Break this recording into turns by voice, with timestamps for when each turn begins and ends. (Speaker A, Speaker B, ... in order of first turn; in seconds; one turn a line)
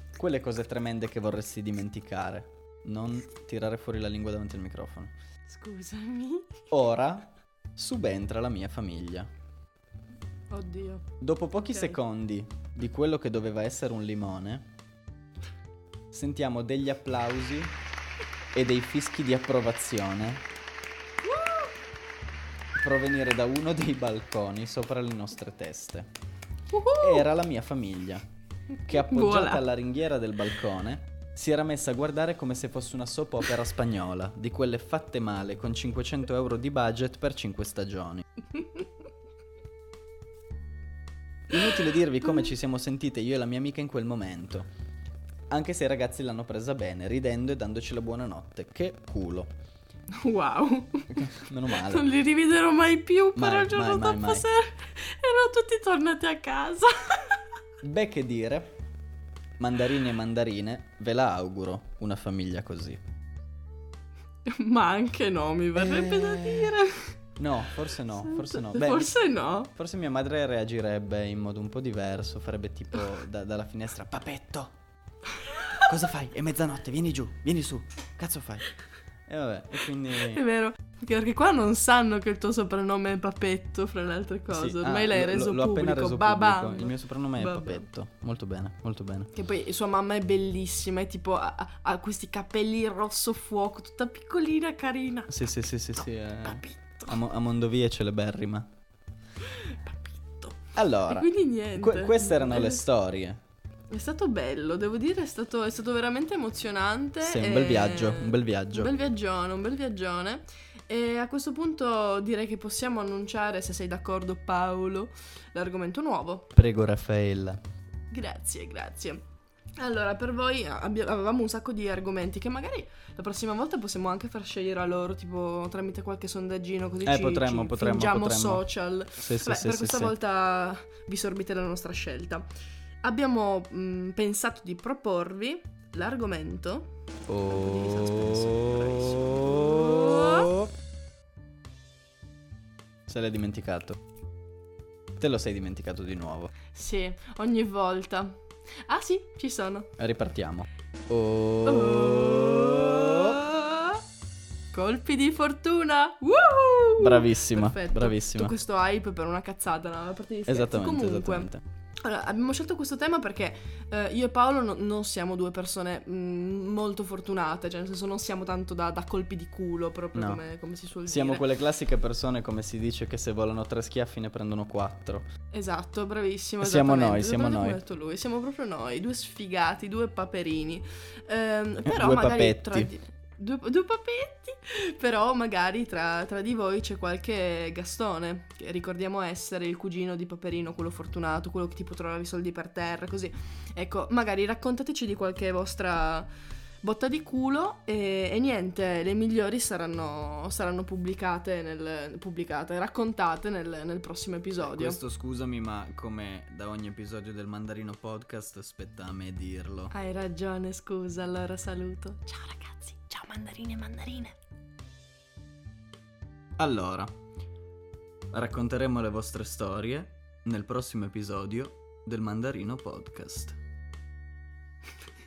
Speaker A: 0.1-5.1
Speaker B: 5.5-6.7
Speaker A: 6.7-9.3
Speaker B: 10.5-11.1
Speaker A: 11.2-14.7
Speaker B: 11.6-11.9
Speaker A: 16.1-17.8
Speaker A: 18.5-20.4
Speaker B: 21.2-21.7
Speaker A: 22.7-26.1
Speaker B: 26.7-27.3
Speaker A: 27.0-28.2
Speaker B: 28.8-29.6
Speaker A: 28.9-38.2
Speaker A: 41.5-44.7
Speaker A: 45.5-49.5
Speaker B: 50.1-57.4
Speaker A: 51.1-52.1
Speaker A: 53.4-54.5
Speaker A: 57.8-58.7
Speaker A: 59.6-63.0
Speaker B: 64.4-67.1
Speaker A: 65.7-66.8
Speaker A: 67.4-69.2
Speaker B: 68.2-69.7
Speaker A: 69.7-74.7
Speaker A: 75.7-78.7
Speaker A: 79.3-80.4
Speaker B: 80.2-87.8
Speaker A: 84.5-89.3
Speaker B: 89.3-95.4
Speaker A: 95.3-98.7
Speaker B: 96.0-97.2
Speaker B: 99.4-102.8
Speaker A: 100.7-103.4
Speaker B: 103.9-116.5
Speaker A: 107.2-108.9
Speaker A: 116.5-117.6
Speaker B: 118.1-119.2
Speaker B: 119.8-132.5
Speaker A: 127.0-128.6
Speaker A: 129.2-130.1
Speaker B: 133.0-140.5
Speaker A: 137.3-140.7
Speaker A: 143.1-144.0
Speaker A: 145.2-146.5
Speaker B: 146.7-149.9
Speaker A: 150.0-153.4
Speaker B: 151.7-154.0
Speaker B: 154.7-171.5
Speaker A: 157.0-158.5
Speaker A: 160.5-161.6
Speaker A: 170.1-170.4
Speaker A: 171.1-175.3
Speaker B: 175.5-196.3
Speaker A: 176.6-177.8
Speaker A: 181.8-182.9
Speaker B: 196.8-205.0
Speaker A: 204.6-209.9
Speaker B: 209.9-214.3
Speaker A: 216.6-217.1
Speaker A: 218.3-223.6